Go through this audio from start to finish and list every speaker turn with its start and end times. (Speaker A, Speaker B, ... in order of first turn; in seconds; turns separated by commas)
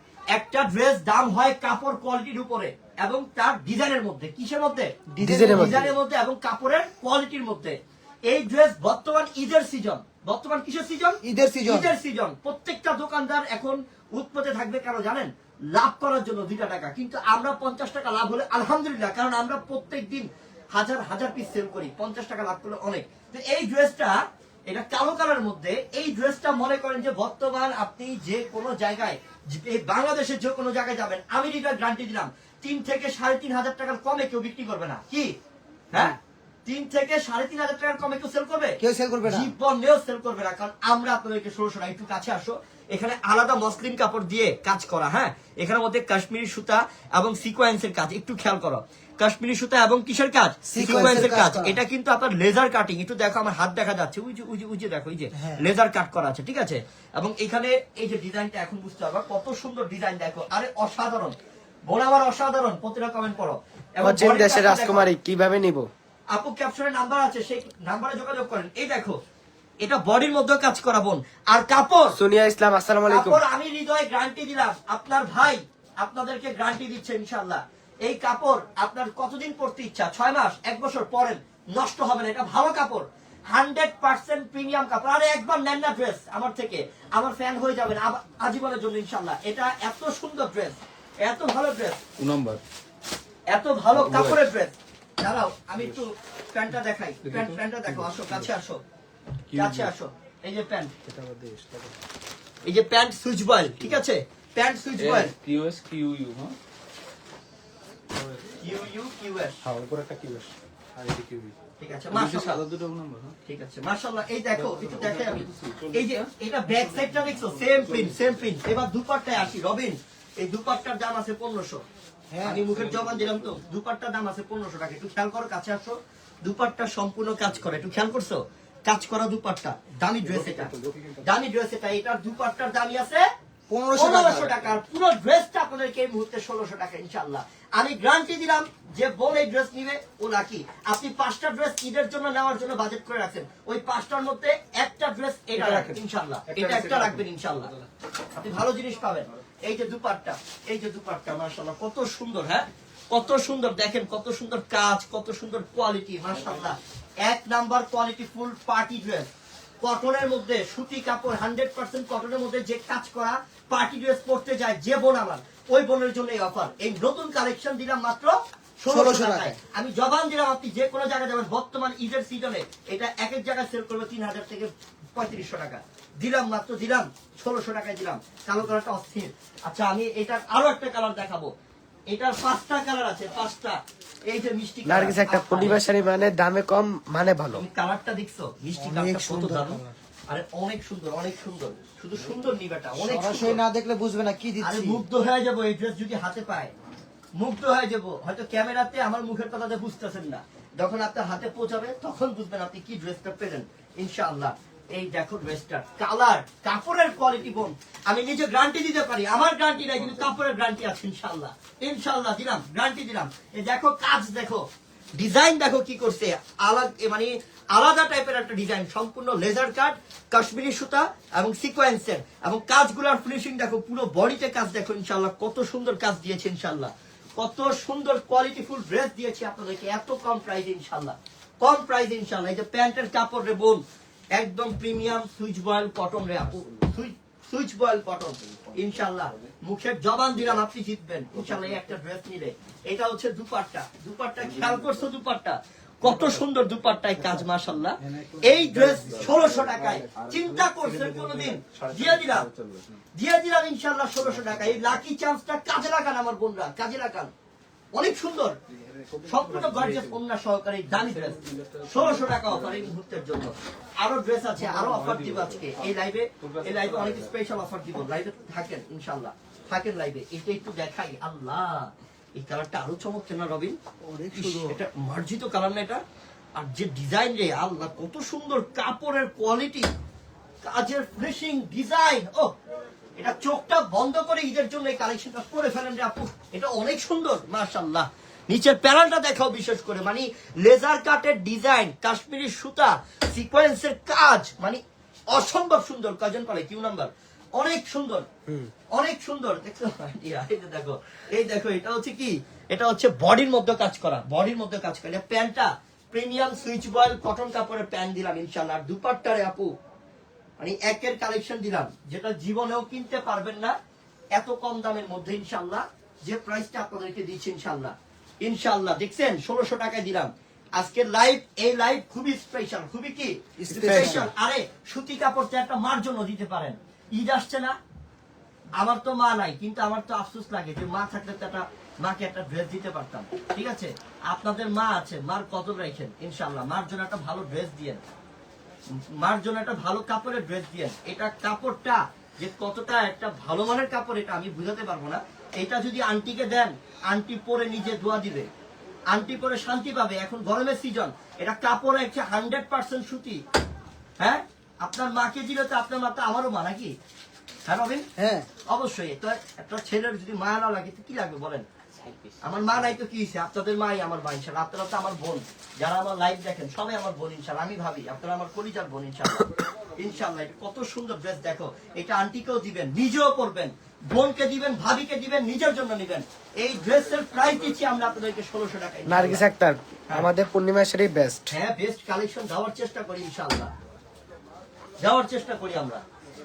Speaker A: 0.3-35.3, Speaker B: 5.2-5.9, Speaker C: 5.2-5.8, Speaker B: 11.2-11.9, Speaker A: 35.9-61.4, Speaker B: 38.8-39.5, Speaker B: 50.7-51.8, Speaker A: 61.9-65.1, Speaker C: 64.0-65.9, Speaker A: 66.3-69.2, Speaker A: 69.8-72.2, Speaker C: 72.2-73.4, Speaker A: 73.1-92.0, Speaker D: 92.2-92.6, Speaker A: 93.5-98.8, Speaker D: 93.9-94.4, Speaker D: 95.8-96.0, Speaker D: 97.2-98.5, Speaker D: 99.5-99.9, Speaker A: 99.5-100.9, Speaker D: 101.0-102.0, Speaker A: 102.6-105.3, Speaker D: 105.0-106.6, Speaker D: 108.1-108.7, Speaker A: 108.6-109.6, Speaker D: 109.6-111.6, Speaker A: 111.8-112.6, Speaker D: 112.1-113.3, Speaker A: 113.5-121.8, Speaker D: 114.5-116.3, Speaker D: 116.8-118.5, Speaker B: 122.3-122.6, Speaker A: 122.4-133.2, Speaker D: 122.7-123.5, Speaker D: 130.2-131.2, Speaker B: 133.7-134.7, Speaker A: 133.9-147.7, Speaker D: 145.5-147.9, Speaker A: 148.3-159.3, Speaker A: 159.8-181.5, Speaker B: 168.9-169.5, Speaker A: 182.1-185.8, Speaker C: 184.8-187.6, Speaker A: 187.5-193.6, Speaker B: 188.8-189.9, Speaker B: 192.9-195.0, Speaker A: 194.6-196.7, Speaker A: 197.4-233.8, Speaker A: 234.3-252.5, Speaker D: 241.3-241.8, Speaker D: 244.4-245.1, Speaker D: 246.1-246.4, Speaker B: 248.0-249.4, Speaker D: 248.7-253.0, Speaker A: 253.1-257.3, Speaker D: 254.2-254.9, Speaker A: 257.9-258.6, Speaker D: 258.7-260.2, Speaker A: 259.2-273.8, Speaker D: 260.9-262.9, Speaker D: 264.6-265.9, Speaker D: 266.4-267.3, Speaker B: 274.1-274.8, Speaker A: 274.3-276.0, Speaker A: 276.6-279.9, Speaker A: 280.6-282.5, Speaker A: 283.2-294.8, Speaker A: 295.3-298.3, Speaker A: 298.9-309.7, Speaker A: 310.6-313.8, Speaker A: 314.4-327.7, Speaker B: 323.6-324.3, Speaker C: 323.8-324.2, Speaker A: 328.8-338.0, Speaker A: 339.2-348.5, Speaker A: 349.1-353.4, Speaker A: 354.2-356.9, Speaker A: 357.6-358.1, Speaker B: 358.2-358.5, Speaker A: 358.7-361.6, Speaker A: 362.4-379.4, Speaker C: 379.1-381.5, Speaker A: 381.5-383.7, Speaker A: 385.0-386.0